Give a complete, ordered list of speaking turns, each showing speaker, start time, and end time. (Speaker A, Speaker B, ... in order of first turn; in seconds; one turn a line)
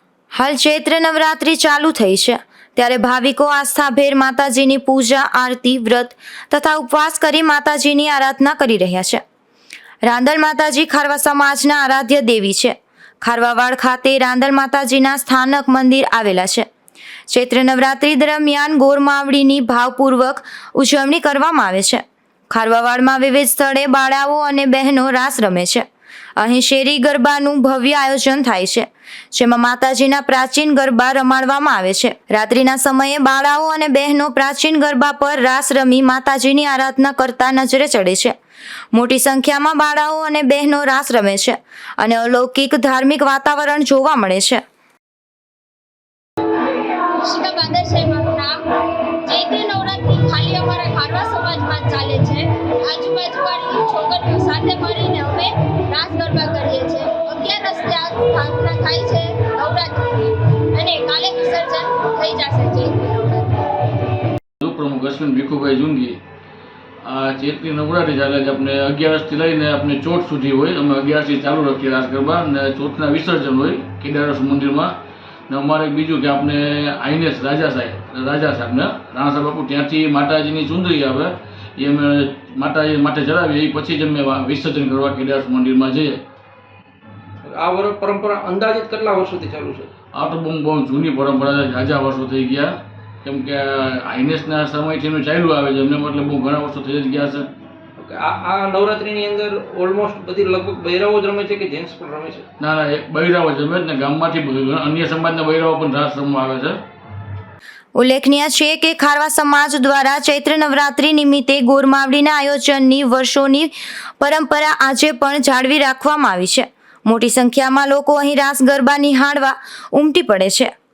Speaker A: 0.3-9.2
Speaker A: 10.0-16.7
Speaker A: 17.3-25.8
Speaker A: 26.4-38.4
Speaker A: 38.9-44.6
Speaker B: 47.2-48.6
Speaker B: 49.2-63.8
Speaker C: 64.6-66.2
Speaker C: 67.0-74.9
Speaker C: 75.5-86.2
Speaker D: 87.4-89.9
Speaker C: 90.1-92.7
Speaker C: 93.2-97.5
Speaker D: 98.0-102.5
Speaker C: 102.6-106.8
Speaker A: 108.0-120.7